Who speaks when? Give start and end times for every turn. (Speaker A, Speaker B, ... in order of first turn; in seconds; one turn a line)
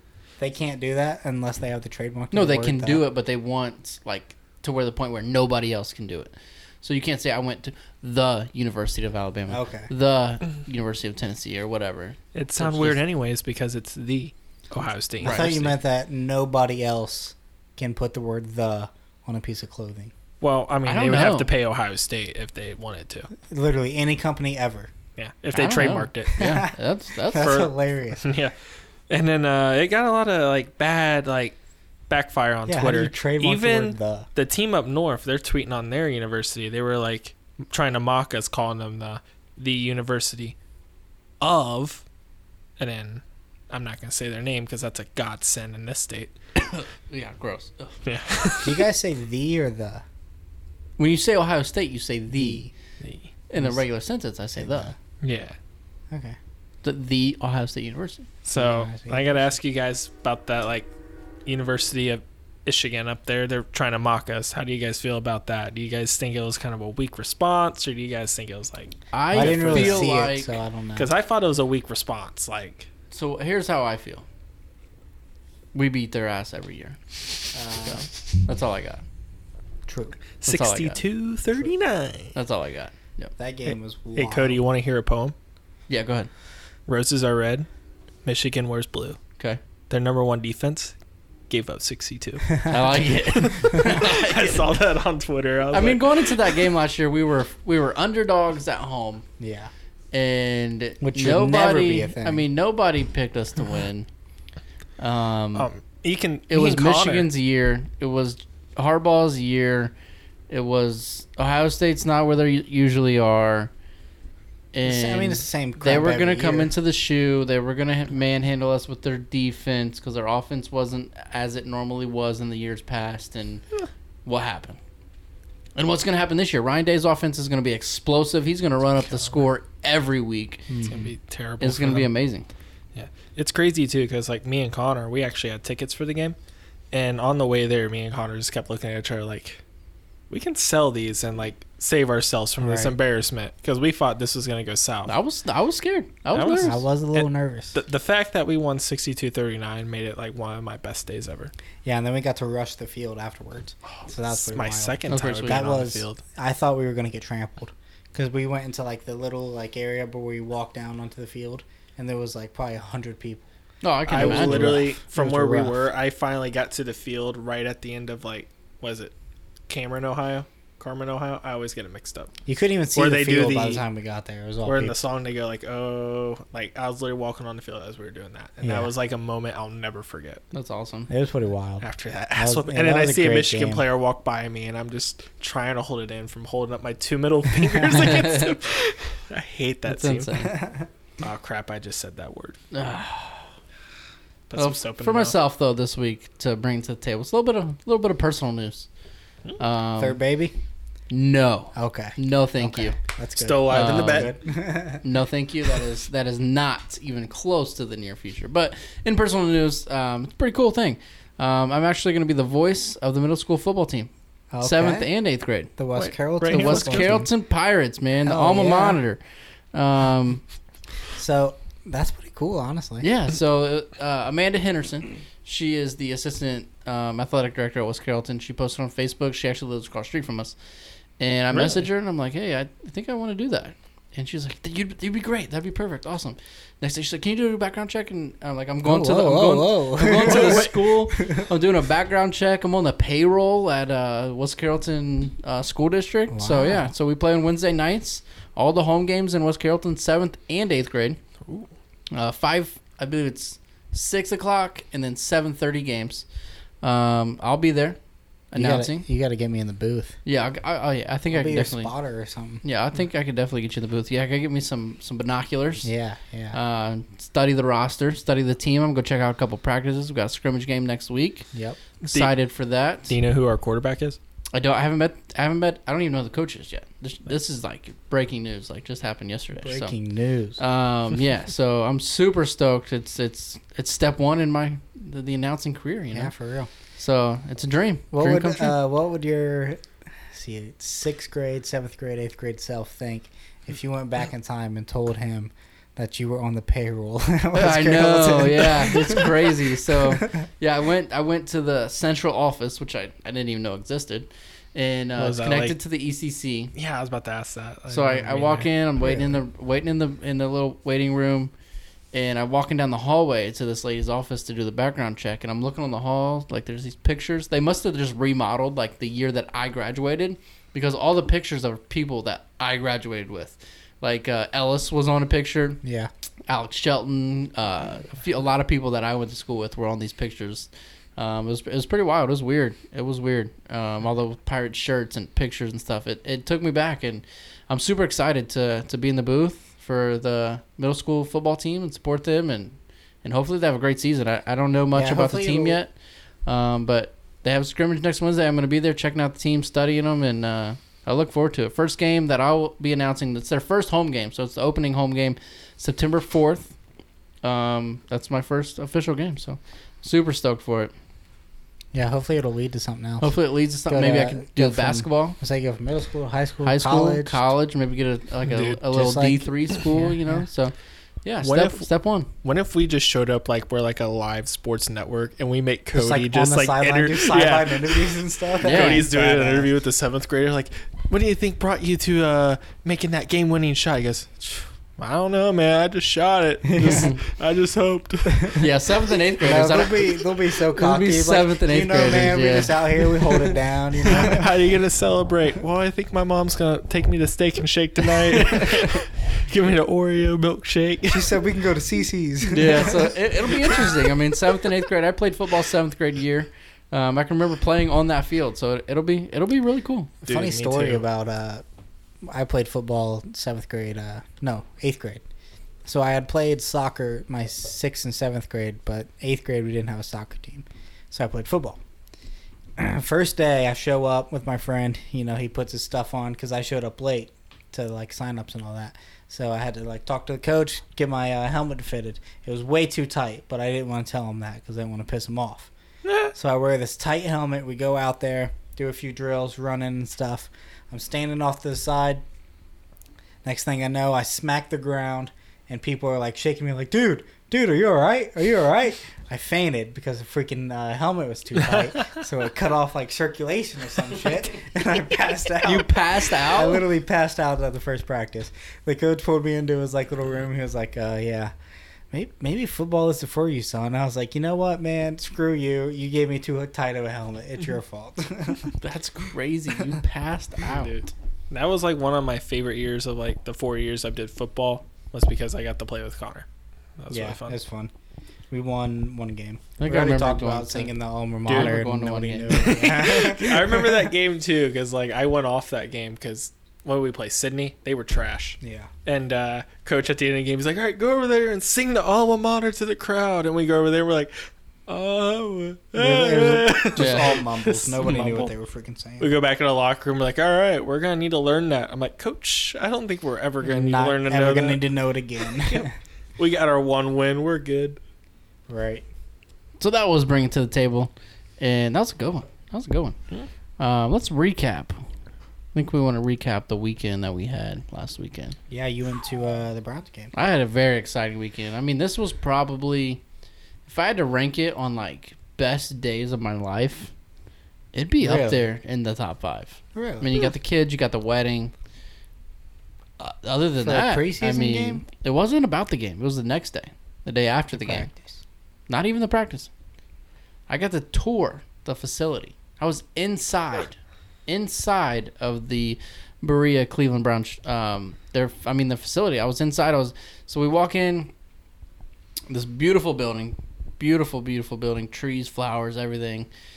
Speaker A: 0.4-3.0
Speaker B: 2.3-13.0
Speaker A: 9.5-9.9
Speaker C: 12.3-15.7
Speaker A: 15.2-20.1
Speaker B: 15.2-15.5
Speaker C: 20.4-23.3
Speaker B: 20.9-21.5
Speaker A: 23.5-24.9
Speaker C: 25.2-26.4
Speaker B: 25.5-27.6
Speaker A: 26.4-26.7
Speaker A: 27.2-28.2
Speaker C: 27.4-31.6
Speaker C: 32.1-40.5
Speaker A: 32.7-34.3
Speaker C: 41.4-42.0
Speaker C: 42.8-46.3
Speaker B: 46.6-48.0
Speaker C: 48.0-48.7
Speaker A: 48.6-50.0
Speaker B: 51.0-52.7
Speaker A: 52.3-52.7
Speaker C: 53.0-53.3
Speaker B: 53.5-54.9
Speaker A: 53.6-53.8
Speaker A: 54.6-55.0
Speaker C: 55.2-55.6
Speaker A: 56.1-56.4
Speaker B: 56.8-58.3
Speaker C: 58.4-60.9
Speaker A: 58.5-59.3
Speaker C: 61.5-70.1
Speaker B: 69.1-70.5
Speaker A: 69.3-71.1
Speaker C: 71.0-72.9
Speaker B: 73.1-74.2
Speaker B: 75.7-79.0
Speaker A: 77.5-78.1
Speaker A: 79.9-80.2
Speaker C: 80.4-82.3
Speaker B: 80.5-81.0
Speaker B: 82.3-83.3
Speaker A: 83.4-84.6
Speaker C: 83.7-85.3
Speaker B: 85.9-86.3
Speaker C: 86.9-87.7
Speaker C: 88.2-89.2
Speaker C: 89.9-91.0
Speaker C: 91.5-96.6
Speaker B: 92.7-94.7
Speaker B: 95.7-99.2
Speaker A: 99.4-99.7
Speaker B: 100.1-104.1
Speaker A: 101.0-102.5
Speaker B: 105.0-105.7
Speaker C: 105.5-107.3
Speaker B: 106.5-109.9
Speaker B: 110.5-113.7
Speaker B: 114.7-123.7
Speaker A: 114.8-116.7
Speaker B: 124.2-124.8
Speaker B: 125.7-130.7
Speaker A: 130.7-131.1
Speaker C: 130.8-132.1
Speaker B: 131.6-132.5
Speaker C: 132.9-136.4
Speaker C: 136.9-139.6
Speaker C: 140.3-145.1
Speaker A: 142.6-142.9
Speaker B: 145.1-146.8
Speaker C: 146.3-151.5
Speaker A: 146.6-147.8
Speaker A: 151.8-163.4
Speaker C: 153.9-156.2
Speaker B: 155.1-155.6
Speaker B: 163.8-164.8
Speaker C: 164.1-169.1
Speaker A: 164.1-165.8
Speaker C: 169.7-172.3
Speaker A: 172.4-175.0
Speaker C: 172.9-173.8
Speaker C: 174.6-180.4
Speaker A: 178.6-178.9
Speaker B: 180.5-181.1
Speaker A: 181.1-183.8
Speaker C: 181.8-190.3
Speaker A: 187.6-187.9
Speaker B: 187.9-188.5
Speaker B: 189.9-190.6
Speaker A: 190.4-190.8
Speaker C: 191.2-192.6
Speaker B: 192.7-193.5
Speaker C: 194.5-195.4
Speaker B: 194.6-198.9
Speaker B: 199.6-200.2
Speaker A: 200.0-200.5
Speaker B: 201.1-202.9
Speaker A: 201.8-205.0
Speaker C: 203.4-204.3
Speaker B: 203.7-215.7
Speaker A: 214.5-215.1
Speaker A: 215.7-217.3
Speaker C: 215.9-217.1
Speaker B: 216.4-219.2
Speaker A: 218.2-219.0
Speaker B: 219.7-220.5
Speaker A: 221.1-223.1
Speaker B: 223.0-230.6
Speaker B: 231.2-251.2
Speaker C: 231.5-231.9
Speaker A: 238.8-241.5
Speaker C: 240.3-240.7
Speaker A: 246.3-246.9
Speaker B: 252.1-256.2
Speaker B: 256.8-258.0
Speaker B: 258.5-259.1
Speaker A: 258.5-260.2
Speaker B: 260.2-261.9
Speaker A: 261.3-262.6
Speaker B: 262.6-265.9
Speaker A: 265.8-266.6
Speaker B: 266.5-271.5
Speaker A: 271.5-271.8
Speaker C: 272.1-272.3
Speaker B: 272.1-273.1
Speaker C: 273.1-274.2
Speaker B: 274.5-279.9
Speaker A: 279.6-280.6
Speaker B: 280.6-286.3
Speaker A: 286.1-286.7
Speaker B: 287.0-288.7
Speaker A: 288.1-299.4
Speaker B: 297.5-306.7
Speaker C: 305.2-305.8
Speaker C: 306.7-308.7
Speaker B: 307.9-311.5
Speaker A: 309.0-309.4
Speaker B: 312.1-325.8
Speaker A: 325.8-326.1
Speaker B: 326.5-345.9
Speaker A: 344.9-345.8
Speaker B: 346.4-356.8
Speaker B: 357.4-360.9
Speaker A: 361.9-367.4
Speaker B: 363.2-365.4
Speaker B: 366.6-372.3
Speaker C: 368.5-368.8
Speaker A: 368.9-369.5
Speaker C: 369.8-370.1
Speaker C: 371.4-388.6
Speaker A: 375.9-379.7
Speaker B: 378.6-379.1
Speaker A: 386.7-387.1
Speaker B: 386.8-387.2
Speaker B: 388.6-390.2
Speaker A: 389.4-394.5
Speaker B: 390.7-393.6
Speaker C: 394.1-401.4
Speaker A: 401.1-403.1
Speaker B: 402.5-410.1
Speaker C: 410.2-411.1
Speaker A: 410.3-411.6
Speaker A: 412.2-415.2
Speaker A: 415.8-421.8
Speaker A: 422.8-435.7
Speaker C: 436.0-436.3
Speaker A: 436.3-442.2
Speaker A: 443.4-461.5
Speaker C: 451.6-452.2
Speaker B: 455.6-456.8
Speaker A: 462.1-468.7
Speaker B: 468.8-470.9
Speaker C: 470.6-476.5
Speaker C: 477.0-477.6
Speaker A: 477.1-477.9
Speaker A: 478.5-484.1
Speaker B: 479.8-480.9
Speaker C: 481.5-481.8
Speaker B: 481.5-483.1
Speaker C: 482.5-498.5
Speaker A: 488.6-488.9
Speaker A: 495.9-499.3
Speaker B: 497.0-497.4
Speaker C: 499.2-504.8
Speaker A: 503.6-505.9
Speaker C: 505.4-508.0
Speaker A: 508.7-509.1
Speaker B: 509.8-513.2
Speaker B: 513.8-515.0
Speaker B: 515.7-518.5
Speaker A: 518.7-520.3
Speaker B: 520.3-523.2
Speaker B: 523.8-527.1
Speaker B: 527.9-531.7
Speaker A: 528.2-528.6
Speaker A: 529.9-530.3
Speaker B: 533.2-538.1
Speaker A: 533.8-535.0
Speaker A: 537.7-538.4
Speaker B: 538.9-539.7
Speaker B: 540.7-551.3
Speaker B: 552.5-556.5